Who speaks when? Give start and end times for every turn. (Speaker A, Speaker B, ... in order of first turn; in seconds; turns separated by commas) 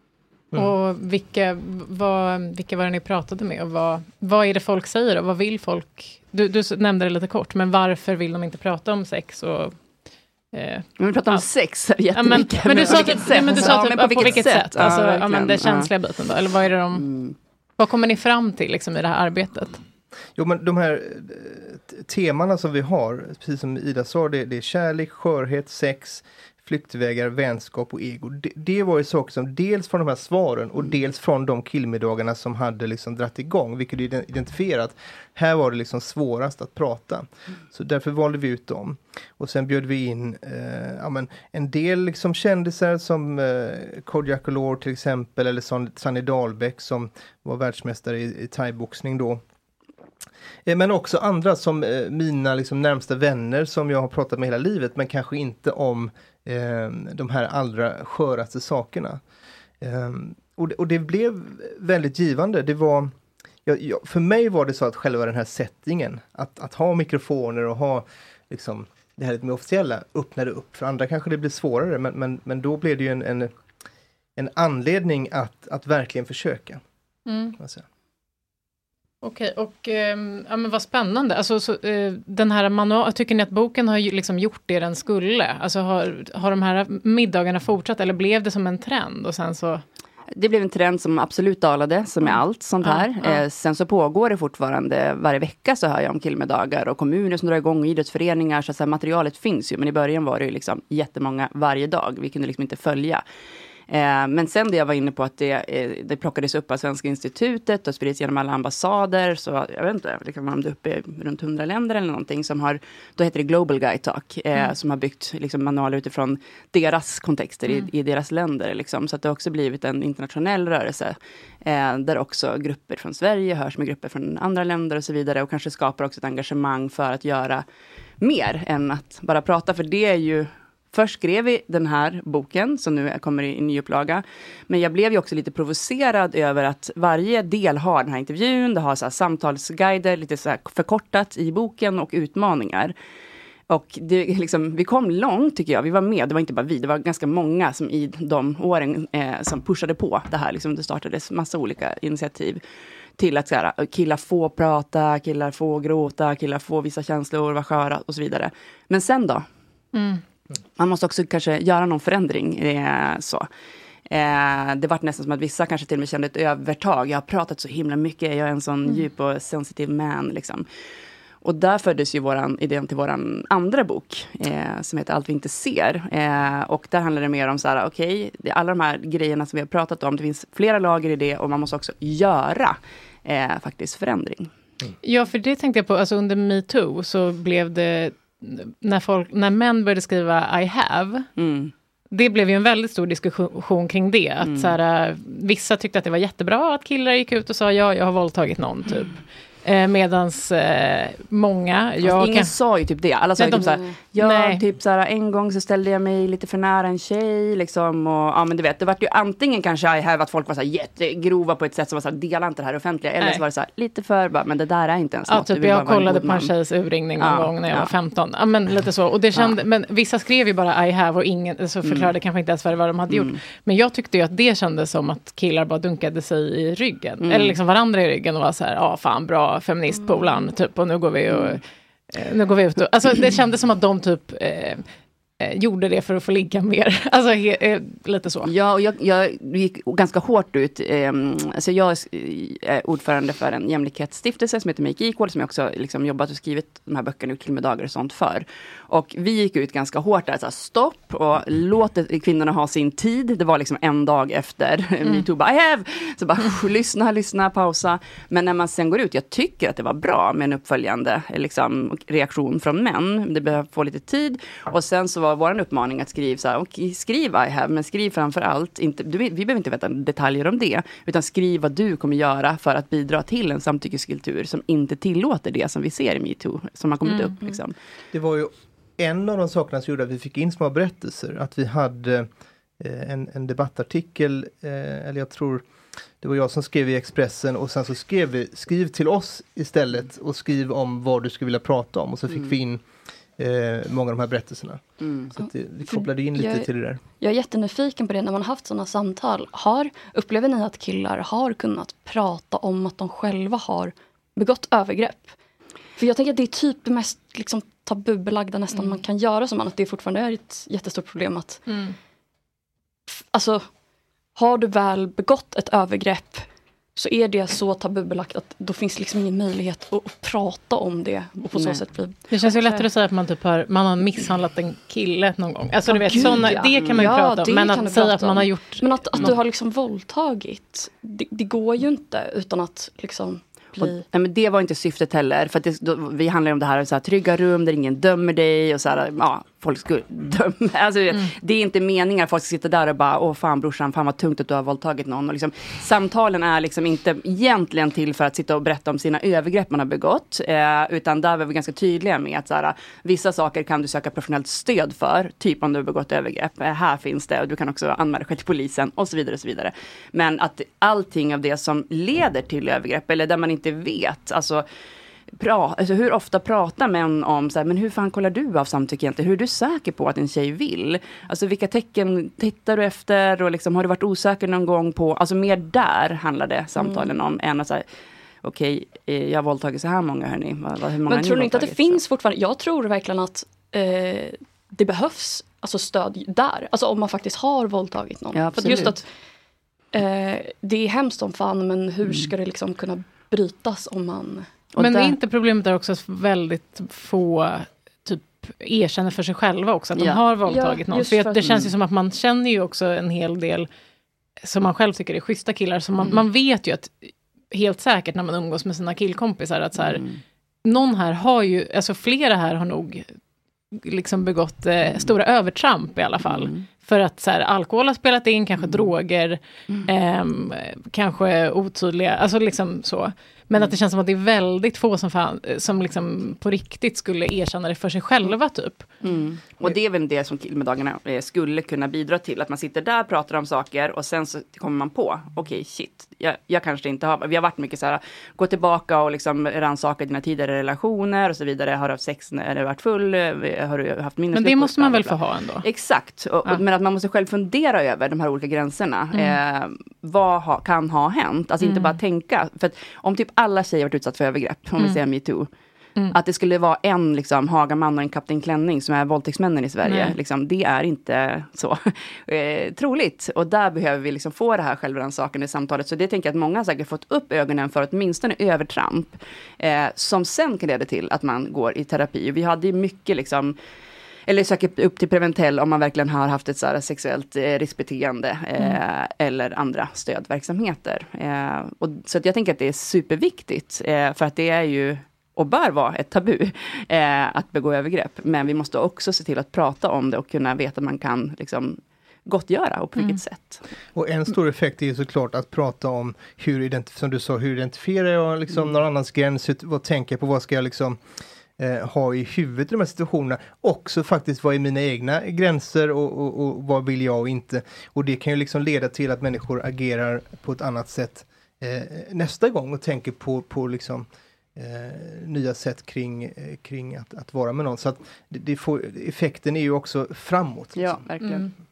Speaker A: 0.5-9.8, Speaker A: 10.5-11.4, Speaker B: 11.0-15.9, Speaker A: 12.1-17.1, Speaker B: 16.9-17.4, Speaker A: 17.8-19.8, Speaker C: 20.4-49.4, Speaker C: 50.7-59.2, Speaker C: 59.8-63.1, Speaker C: 63.7-73.5, Speaker C: 74.4-76.8, Speaker A: 77.3-77.6, Speaker A: 79.2-89.8, Speaker B: 90.4-103.2, Speaker A: 92.3-93.4, Speaker B: 103.9-127.6, Speaker B: 128.2-142.9, Speaker B: 143.7-152.6, Speaker B: 153.2-159.4, Speaker A: 159.9-160.2, Speaker B: 160.8-163.5, Speaker B: 164.1-170.7, Speaker B: 171.4-184.5, Speaker A: 185.0-191.3, Speaker B: 191.4-191.7, Speaker A: 192.1-202.6, Speaker B: 194.4-194.8, Speaker B: 202.0-216.5, Speaker A: 203.4-204.6, Speaker D: 203.6-203.9, Speaker A: 215.3-234.8, Speaker B: 217.2-217.9, Speaker B: 221.8-222.2, Speaker B: 223.1-223.4, Speaker B: 227.2-227.6, Speaker B: 231.3-231.6, Speaker A: 235.4-238.5, Speaker B: 238.4-277.8, Speaker A: 277.1-277.4, Speaker C: 278.1-282.3, Speaker C: 282.8-285.6, Speaker C: 286.2-292.8, Speaker C: 293.4-297.0, Speaker B: 295.0-295.3, Speaker D: 295.9-305.4, Speaker D: 306.0-311.6, Speaker A: 311.7-311.9, Speaker D: 313.3-313.7, Speaker D: 314.4-322.9, Speaker B: 321.5-321.8, Speaker A: 322.3-329.4, Speaker D: 325.9-334.0, Speaker B: 326.2-327.1, Speaker B: 333.8-364.6, Speaker B: 365.4-377.9, Speaker D: 376.8-377.1, Speaker B: 378.4-382.0, Speaker D: 381.1-389.1, Speaker B: 388.3-389.0, Speaker D: 389.9-394.9, Speaker A: 394.8-403.7, Speaker B: 394.8-395.1, Speaker D: 400.4-401.7, Speaker B: 401.4-401.7, Speaker A: 404.4-410.0, Speaker B: 409.8-410.2, Speaker A: 410.6-413.1, Speaker A: 413.7-429.0, Speaker B: 416.2-416.7, Speaker B: 429.0-455.5, Speaker A: 444.3-445.7, Speaker A: 449.1-449.4, Speaker A: 451.6-452.0, Speaker B: 456.1-473.6, Speaker A: 459.8-460.2, Speaker B: 474.3-493.6, Speaker C: 493.9-501.0, Speaker C: 501.6-521.0, Speaker B: 520.8-521.5, Speaker A: 521.2-521.5